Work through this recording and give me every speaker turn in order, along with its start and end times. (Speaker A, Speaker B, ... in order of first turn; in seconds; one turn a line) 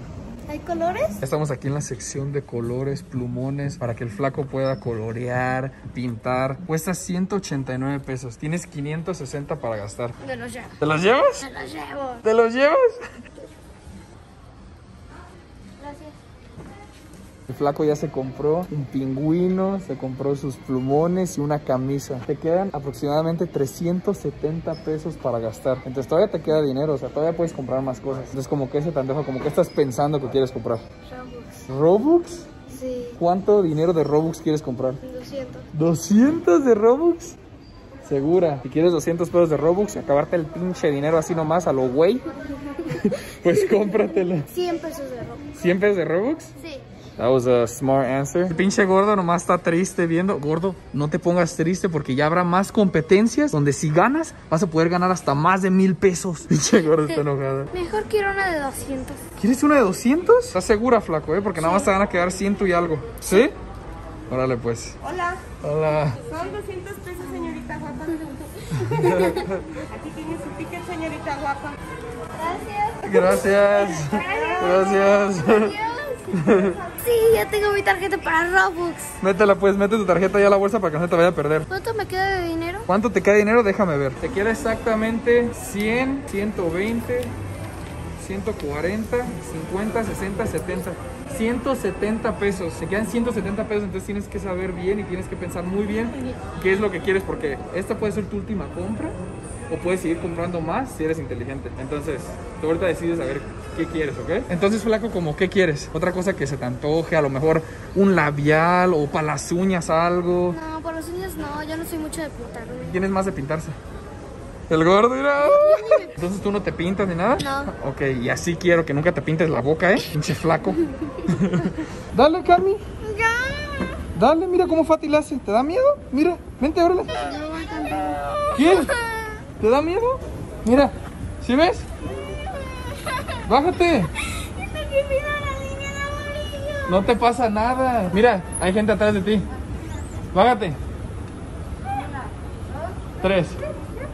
Speaker A: 0.5-1.2
Speaker B: 1.2-10.2
Speaker A: 10.2-10.7
Speaker B: 10.8-11.5
Speaker A: 11.4-12.2
Speaker B: 12.2-13.0
Speaker A: 15.8-16.1
Speaker B: 17.5-30.8
Speaker A: 31.1-31.6
Speaker B: 31.7-32.5
Speaker A: 32.7-33.1
Speaker B: 33.2-35.0
Speaker A: 35.0-35.6
Speaker B: 35.7-37.4
Speaker B: 38.0-42.2
Speaker B: 42.9-44.5
Speaker A: 44.5-45.4
Speaker B: 45.5-46.5
Speaker B: 47.2-57.7
Speaker A: 57.7-59.2
Speaker B: 59.4-63.5
Speaker A: 61.6-61.9
Speaker B: 64.3-65.0
Speaker B: 65.5-66.2
Speaker C: 66.3-68.8
Speaker B: 68.7-69.6
Speaker A: 69.0-69.5
Speaker C: 69.7-71.8
Speaker A: 72.3-76.3
Speaker B: 73.0-75.8
Speaker C: 74.3-74.7
Speaker B: 76.3-76.8
Speaker A: 76.8-79.1
Speaker B: 79.2-81.7
Speaker A: 81.7-82.8
Speaker B: 82.9-87.3
Speaker B: 88.2-99.2
Speaker B: 99.7-110.6
Speaker A: 110.5-112.9
Speaker B: 112.9-113.8
Speaker B: 114.7-122.8
Speaker A: 115.4-116.1
Speaker A: 117.4-117.7
Speaker A: 123.0-123.8
Speaker B: 124.1-127.2
Speaker A: 127.1-129.4
Speaker B: 128.5-128.9
Speaker B: 129.6-131.8
Speaker A: 133.1-133.3
Speaker B: 133.4-134.1
Speaker A: 134.4-137.0
Speaker B: 136.8-139.4
Speaker B: 140.3-140.8
Speaker B: 143.2-143.6